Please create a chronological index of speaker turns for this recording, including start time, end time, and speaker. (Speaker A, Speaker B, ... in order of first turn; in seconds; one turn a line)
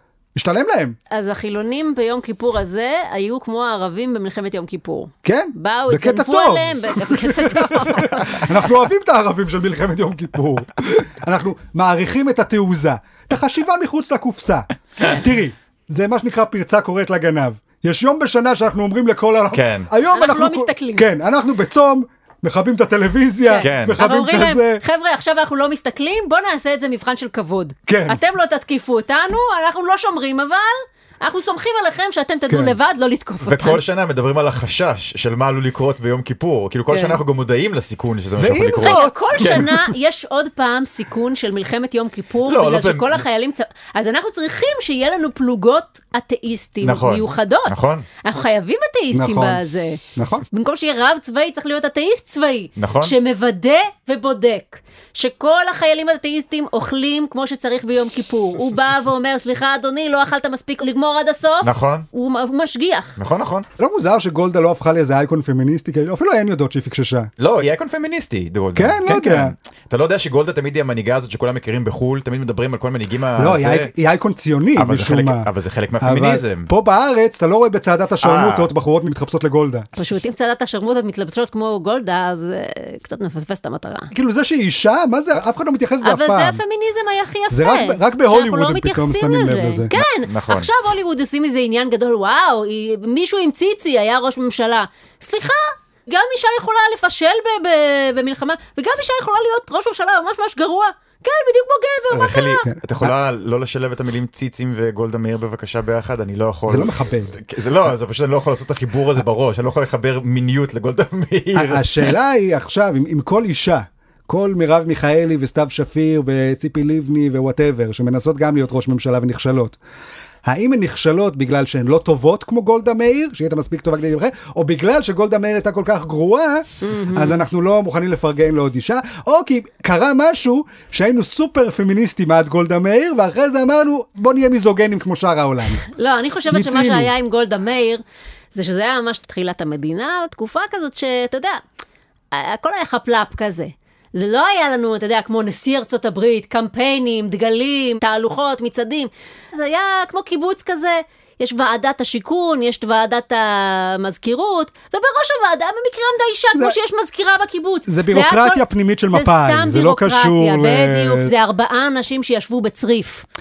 Speaker A: 0.3-1.0
Speaker B: 1.1-8.4
Speaker A: 5.2-24.8
Speaker C: 19.5-19.9
Speaker B: 20.1-21.1
Speaker B: 23.4-33.8
Speaker C: 23.6-24.0
Speaker A: 27.9-28.2
Speaker A: 32.5-32.7
Speaker C: 33.4-39.8
Speaker B: 36.9-37.2
Speaker A: 38.4-39.7
Speaker B: 38.7-63.1
Speaker C: 42.4-43.2
Speaker C: 46.8-48.1
Speaker A: 49.1-49.6
Speaker A: 50.1-50.4
Speaker C: 52.8-53.1
Speaker C: 61.6-62.1
Speaker C: 63.2-63.6
Speaker A: 63.8-67.3
Speaker C: 67.4-73.9
Speaker A: 68.7-69.5
Speaker A: 73.4-75.5
Speaker C: 74.7-76.7
Speaker A: 76.0-79.9
Speaker C: 78.2-78.7
Speaker B: 80.0-84.1
Speaker A: 84.1-86.6
Speaker B: 86.0-102.6
Speaker A: 87.5-89.9
Speaker C: 90.0-90.7
Speaker C: 102.1-112.1
Speaker A: 102.6-103.1
Speaker A: 106.7-107.4
Speaker A: 111.5-119.7
Speaker A: 120.4-135.8
Speaker B: 126.8-127.4
Speaker B: 135.8-138.0
Speaker A: 136.5-137.1
Speaker B: 138.5-141.6
Speaker B: 142.3-163.2
Speaker A: 157.9-161.3